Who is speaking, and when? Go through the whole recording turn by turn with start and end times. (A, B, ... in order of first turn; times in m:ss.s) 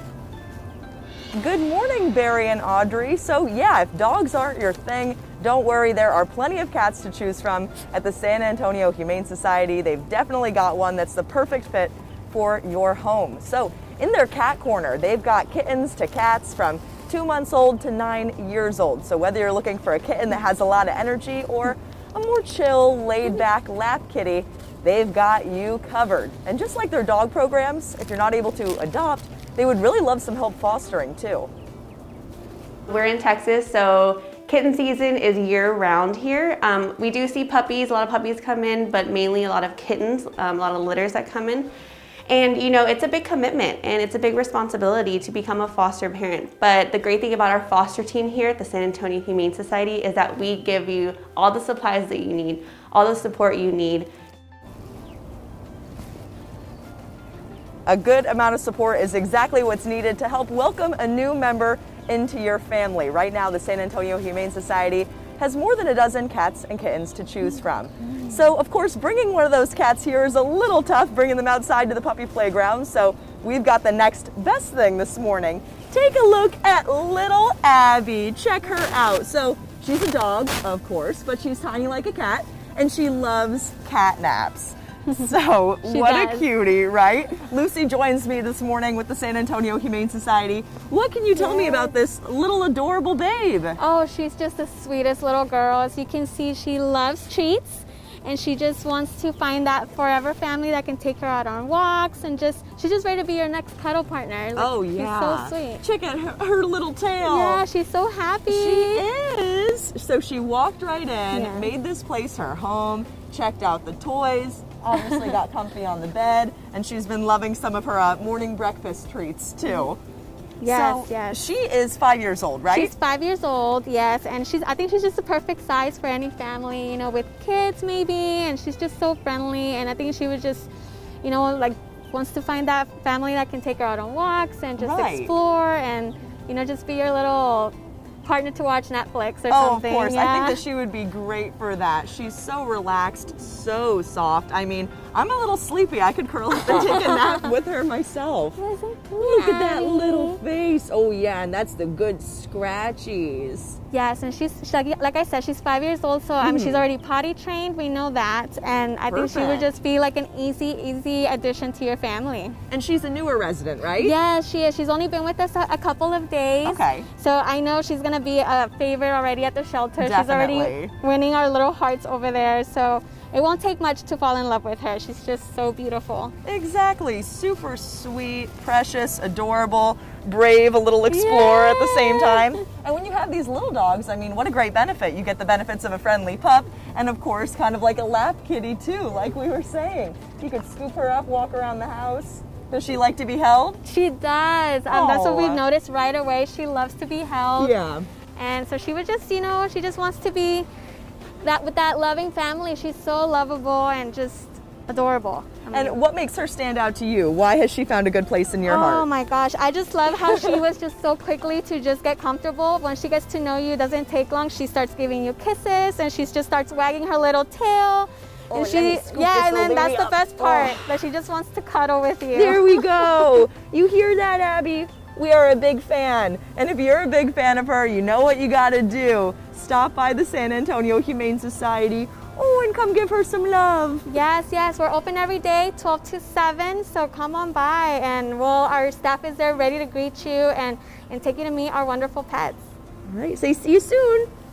0:01.3-0:31.5 A
0:32.9-0:41.7 B
0:42.3-0:54.1 B
0:57.8-1:33.8 A
1:25.8-1:26.4 C
1:31.4-1:31.9 C
1:33.8-1:45.8 C
1:44.5-1:47.6 A
1:47.2-1:49.0 C
1:48.5-2:00.0 A
1:51.3-1:51.7 C
1:54.9-1:55.4 C
2:00.6-2:01.4 C
2:00.6-2:02.9 A
2:02.7-2:10.7 C
2:11.2-2:20.6 C
2:14.8-2:15.3 A
2:19.5-2:28.6 A
2:28.6-2:30.4 C
2:29.2-2:33.8 A
2:33.9-2:42.6 C
2:36.4-2:36.9 A
2:39.1-2:39.7 A
2:42.7-2:44.1 A
2:44.0-2:56.3 C
2:46.6-2:47.1 A
2:50.0-2:50.9 A
2:56.4-3:13.8 A
3:01.1-3:02.5 C
3:13.8-3:17.7 C
3:14.9-3:15.6 A
3:17.6-3:18.1 A
3:18.4-3:20.6 C
3:21.4-3:26.0 C
3:25.7-3:29.1 A
3:28.6-3:43.2 C
3:30.2-3:30.6 A
3:38.5-3:40.8 A
3:42.3-3:54.1 A
3:54.1-4:02.7 C
4:03.1-4:04.3 A